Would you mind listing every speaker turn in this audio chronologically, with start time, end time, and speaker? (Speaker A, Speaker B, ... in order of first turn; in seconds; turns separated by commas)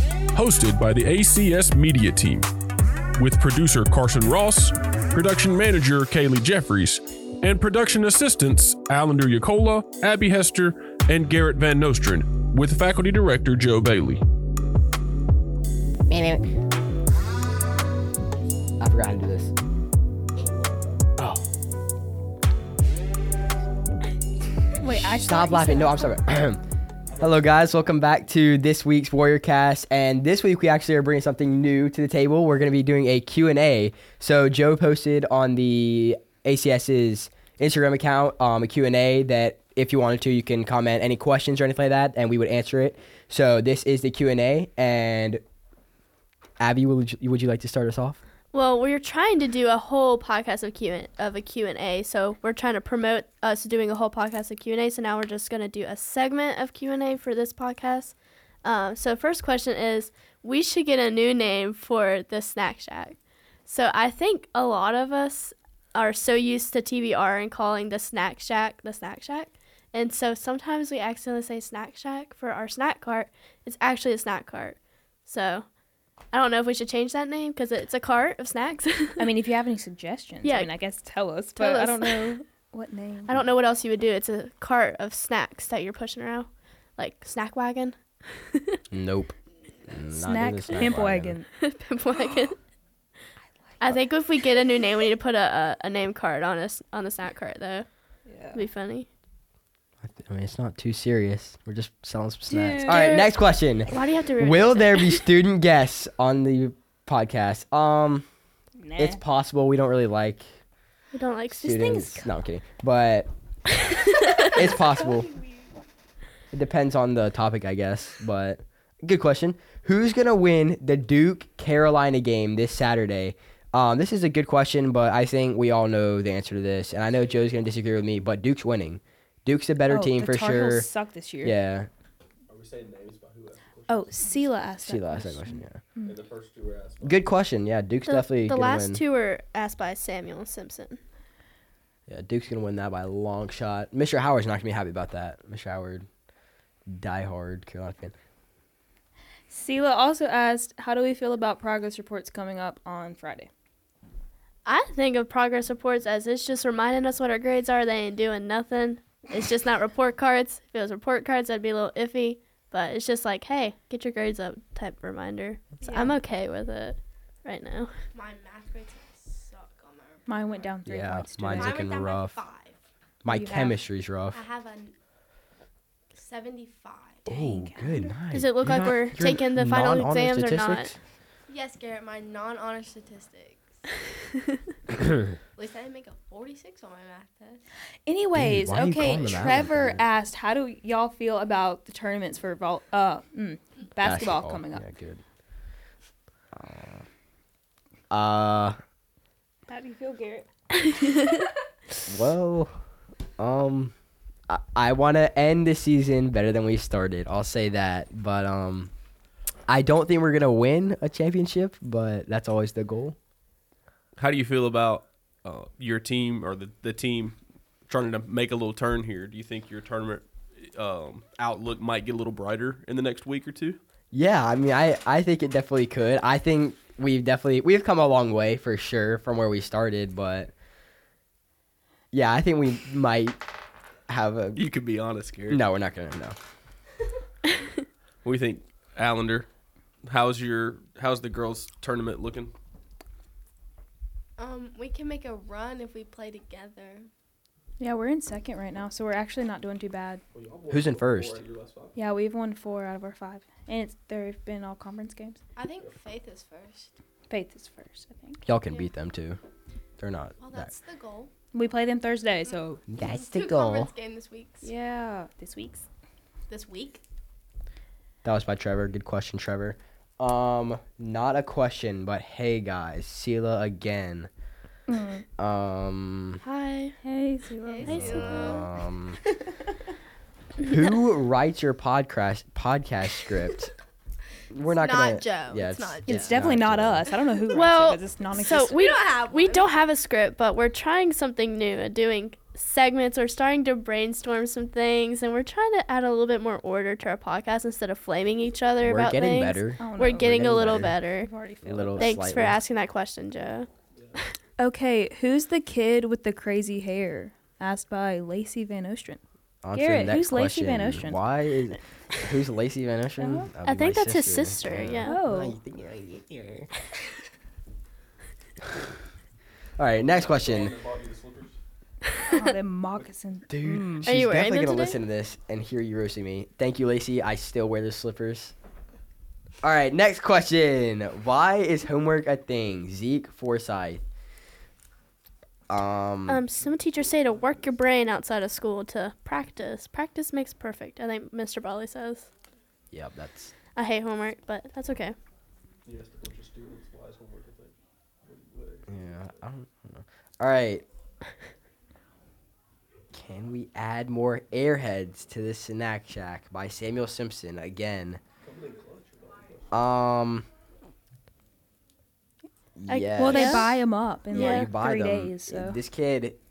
Speaker A: 0.3-2.5, Speaker A: 3.2-14.2, Speaker B: 16.1-16.4, Speaker B: 18.8-19.5, Speaker A: 20.3-21.1, Speaker B: 21.2-21.4, Speaker C: 24.8-26.1, Speaker B: 25.1-26.6, Speaker A: 27.1-27.4, Speaker B: 27.2-45.4, Speaker B: 46.6-48.2, Speaker D: 48.5-75.7, Speaker D: 76.3-79.2, Speaker C: 79.2-83.4, Speaker D: 80.4-80.7, Speaker D: 81.5-82.3, Speaker D: 83.3-88.8, Speaker B: 88.9-89.3, Speaker B: 89.9-91.4, Speaker C: 90.1-91.5, Speaker D: 91.6-92.6, Speaker C: 93.7-94.0, Speaker D: 93.8-97.9, Speaker C: 98.3-98.7, Speaker D: 98.5-99.1, Speaker B: 100.0-108.3, Speaker C: 102.5-103.2, Speaker D: 102.9-103.3, Speaker D: 103.9-105.3, Speaker C: 108.8-109.2, Speaker B: 109.0-110.5, Speaker D: 111.1-111.7, Speaker B: 111.5-113.3, Speaker C: 111.6-112.3, Speaker D: 113.8-114.3, Speaker B: 114.5-115.3, Speaker C: 114.7-115.1, Speaker B: 116.5-130.9, Speaker C: 129.9-131.6, Speaker B: 131.4-131.9, Speaker A: 132.5-134.2, Speaker C: 133.9-136.2, Speaker B: 134.8-135.8, Speaker A: 136.0-137.2, Speaker B: 137.0-139.0, Speaker D: 138.1-141.0, Speaker B: 142.1-146.1, Speaker B: 146.9-148.1, Speaker C: 149.5-153.5, Speaker D: 154.7-167.9, Speaker C: 165.8-166.1, Speaker E: 165.8-166.2, Speaker E: 168.1-170.3, Speaker C: 170.3-171.9, Speaker B: 170.8-172.4, Speaker E: 171.5-172.8, Speaker B: 173.2-174.4, Speaker C: 173.3-173.8, Speaker E: 174.3-174.9, Speaker E: 176.1-177.3, Speaker C: 177.2-178.1, Speaker B: 177.3-181.0, Speaker D: 178.3-180.9, Speaker E: 181.5-183.8, Speaker E: 185.6-187.6, Speaker C: 188.1-194.8, Speaker B: 188.3-190.0, Speaker B: 194.0-195.2, Speaker B: 196.5-197.0, Speaker B: 198.1-198.8, Speaker C: 199.7-200.5, Speaker D: 200.8-201.5, Speaker B: 202.1-202.8, Speaker B: 203.4-203.9, Speaker B: 204.5-208.9, Speaker B: 209.7-213.2, Speaker A: 214.2-217.4, Speaker A: 217.9-223.8, Speaker B: 224.1-230.5, Speaker B: 232.1-233.4, Speaker B: 234.1-234.6, Speaker A: 234.5-235.6, Speaker B: 235.5-236.3, Speaker A: 238.2-239.5, Speaker A: 240.1-242.5, Speaker E: 244.4-247.1, Speaker C: 247.8-250.2, Speaker A: 250.3-251.9, Speaker B: 250.7-251.4, Speaker C: 251.9-255.4, Speaker E: 255.6-256.9, Speaker C: 257.3-258.4, Speaker B: 258.4-259.4, Speaker B: 260.0-260.7, Speaker E: 260.4-261.3, Speaker C: 261.5-262.8, Speaker B: 262.9-263.9, Speaker E: 263.0-264.7, Speaker C: 264.6-265.9, Speaker E: 266.5-267.0, Speaker B: 268.2-274.3, Speaker C: 274.9-275.2, Speaker B: 275.4-276.4, Speaker D: 276.4-276.9, Speaker C: 277.0-278.2, Speaker E: 277.6-278.6, Speaker D: 277.8-278.6, Speaker B: 277.8-279.2, Speaker B: 280.6-283.7, Speaker B: 284.5-287.1, Speaker E: 284.6-286.4, Speaker C: 286.1-288.7, Speaker D: 287.5-301.3, Speaker E: 288.4-289.9, Speaker B: 298.8-301.0, Speaker C: 299.8-300.3, Speaker C: 301.2-302.2, Speaker B: 301.6-302.6, Speaker D: 302.0-303.7, Speaker C: 304.6-309.2, Speaker B: 309.6-316.7, Speaker C: 309.7-311.2, Speaker C: 313.2-313.5, Speaker D: 313.6-315.2, Speaker C: 315.0-315.6, Speaker B: 319.8-320.7, Speaker A: 320.0-321.6, Speaker C: 322.2-324.1, Speaker B: 323.5-328.5, Speaker D: 324.0-325.0, Speaker B: 329.6-334.0, Speaker B: 335.7-336.4, Speaker D: 336.3-342.3, Speaker A: 337.3-337.6, Speaker B: 342.9-343.5, Speaker D: 343.7-345.1, Speaker A: 345.9-347.7, Speaker A: 348.2-349.3, Speaker B: 348.9-350.8, Speaker B: 353.1-358.2, Speaker A: 358.4-359.7, Speaker B: 359.7-360.5, Speaker B: 362.8-363.7, Speaker D: 362.9-363.7, Speaker C: 363.2-365.8, Speaker B: 364.3-366.4, Speaker D: 364.3-364.7